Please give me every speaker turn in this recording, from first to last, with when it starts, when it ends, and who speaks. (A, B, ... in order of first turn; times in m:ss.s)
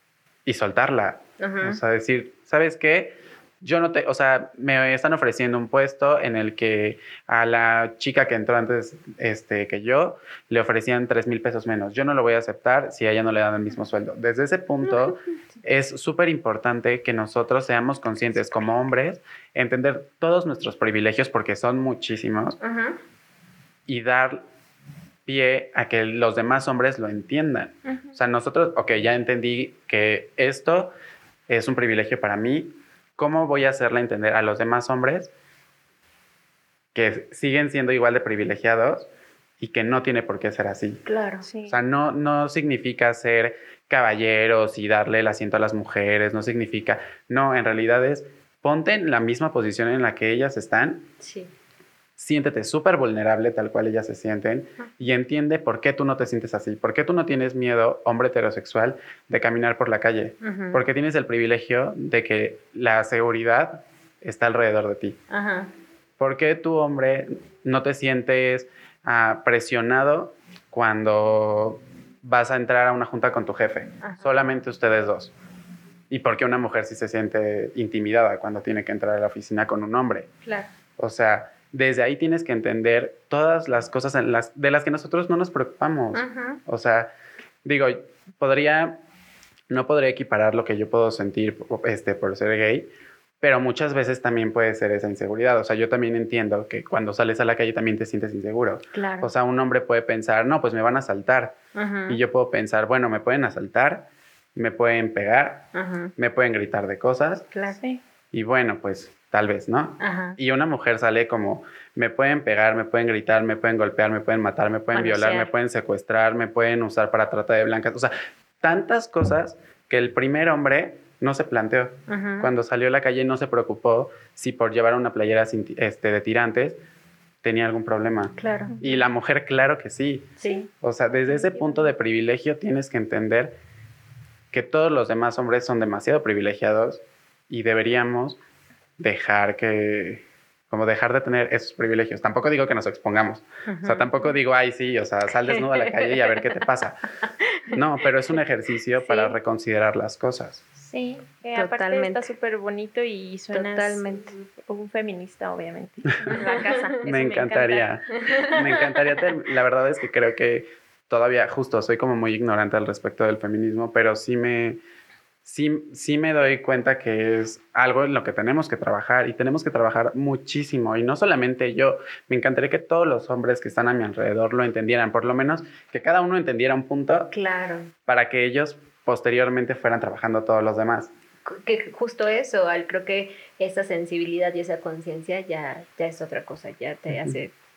0:00.4-0:22.6 A
0:01.4-0:01.8 B
0:22.6-0:23.0 B
0:23.9-0:24.4 A
0:25.2-0:30.9 A
0:27.9-0:28.2 C
0:31.5-0:35.3 A
0:36.9-0:39.1 A
0:39.6-0:41.0 A
0:41.0-0:41.5 B
0:41.4-0:41.8 C
0:41.7-0:51.1 A
0:51.2-0:51.5 B
0:52.2-1:05.2 A
1:00.4-1:00.8 B
1:05.3-1:05.7 B
1:06.2-1:15.3 A
1:14.0-1:14.4 B
1:16.1-1:20.3 A
1:21.0-1:27.1 A
1:26.1-1:26.6 B
1:27.6-1:29.0 A
1:29.7-1:32.9 A
1:33.4-1:41.6 A
1:38.9-1:39.3 B
1:41.7-1:42.2 B
1:42.1-1:47.5 A
1:45.7-1:46.1 B
1:47.5-1:47.8 B
1:48.3-2:06.8 A
1:50.0-1:50.4 B
1:54.9-1:55.5 B
2:02.1-2:02.5 B
2:07.4-2:13.5 A
2:08.4-2:08.8 B
2:08.7-2:09.0 C
2:10.4-2:10.7 B
2:14.5-2:18.4 A
2:19.0-2:27.1 A
2:23.6-2:24.2 B
2:25.5-2:26.7 B
2:27.2-2:27.8 B
2:27.7-2:30.7 A
2:29.0-2:29.4 B
2:30.9-2:34.0 C
2:31.5-2:32.3 B
2:33.5-2:34.4 B
2:34.6-2:37.9 C
2:36.2-2:37.0 B
2:37.0-2:44.8 A
2:38.2-2:38.9 B
2:45.4-2:57.3 A
2:57.3-2:57.9 B
2:58.0-3:01.1 A
3:01.4-3:07.5 B